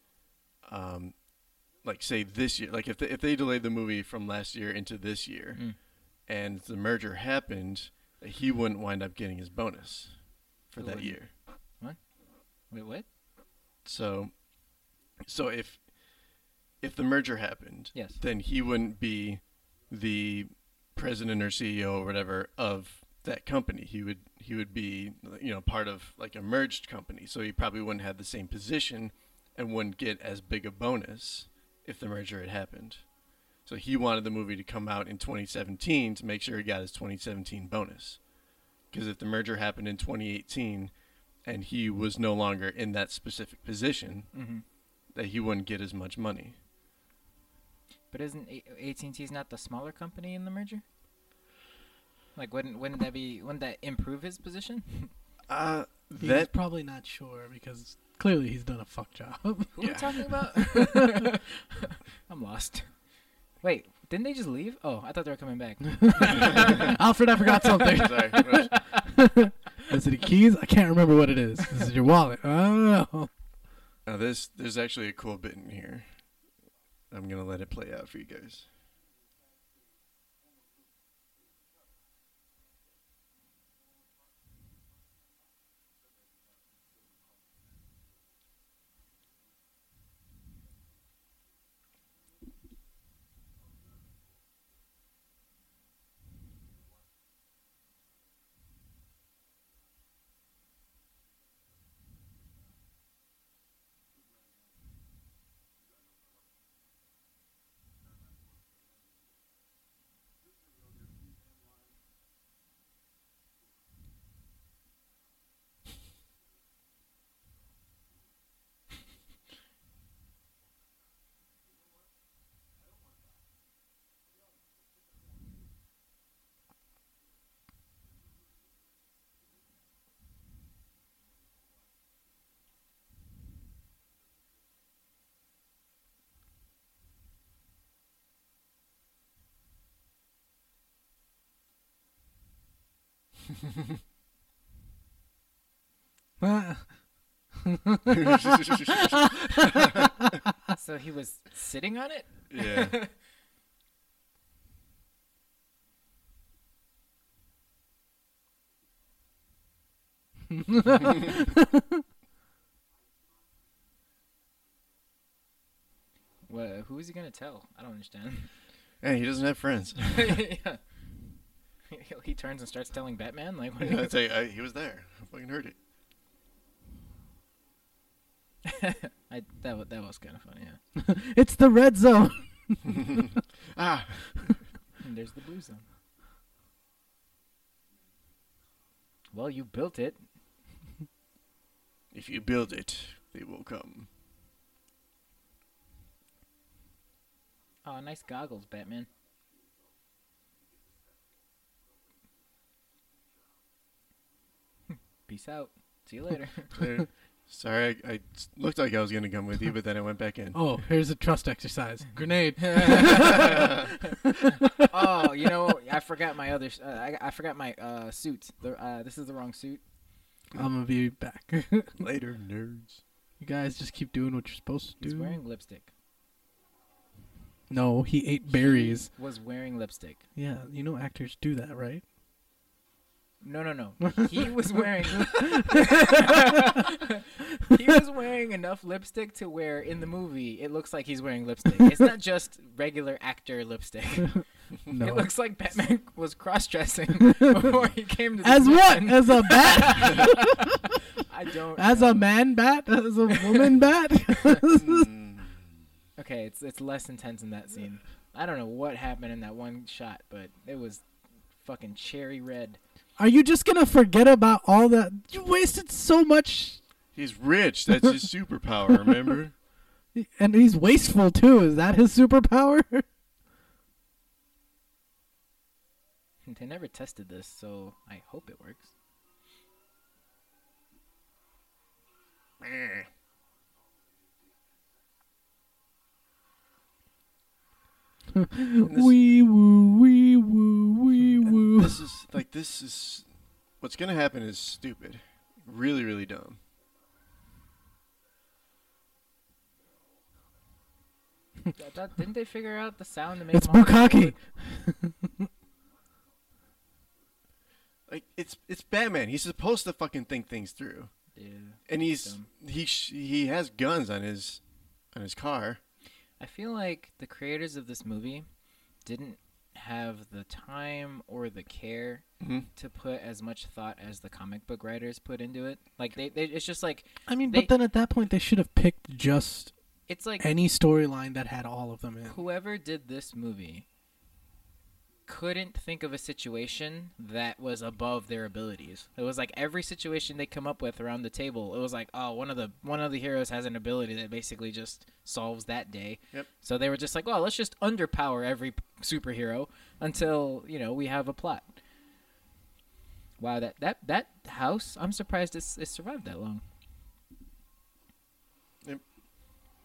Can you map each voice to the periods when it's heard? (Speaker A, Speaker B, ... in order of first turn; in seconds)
Speaker A: 0.6-11.3, 13.8-33.0, 33.6-38.2, 38.9-40.9, 41.4-44.3, 45.1-46.6, 55.5-56.5, 59.8-60.1, 66.4-66.7, 67.9-68.8, 74.0-76.2, 77.1-78.7, 148.2-150.0, 152.5-153.0, 169.0-170.4, 173.8-175.8, 183.1-184.6, 192.1-194.1, 206.8-210.7, 222.0-223.0, 254.8-255.7, 267.1-269.5, 282.6-283.1, 288.8-289.1, 291.4-296.6, 308.1-311.3, 311.9-315.8, 322.4-322.7
Speaker B: 10.8-13.1, 17.9-18.2, 44.3-44.6, 48.1-50.8, 52.4-55.1, 59.8-69.0, 150.7-153.1, 166.4-168.5, 170.1-170.9, 171.9-174.1, 178.6-180.8, 185.0-185.9, 189.3-190.2, 197.8-199.1, 205.3-206.8, 212.7-213.9, 214.9-219.8, 225.0-225.9, 228.4-230.2, 233.4-250.6, 251.2-252.3, 256.2-262.8, 276.4-278.9, 301.7-304.4, 311.3-312.5, 316.4-318.5, 319.0-327.7, 330.1-330.4, 332.3-333.9, 335.3-351.8, 353.4-356.6
Speaker C: 56.2-61.2, 66.0-73.3, 146.4-147.0, 147.6-150.3, 160.7-161.8, 180.9-183.2, 210.5-214.9, 220.5-222.0, 223.4-225.4, 227.7-229.1, 230.3-232.0, 235.3-235.8, 244.3-245.3, 248.4-250.6, 251.8-255.1, 263.2-266.8, 270.1-273.1, 288.3-292.0, 303.5-305.5, 327.3-329.7, 330.4-332.4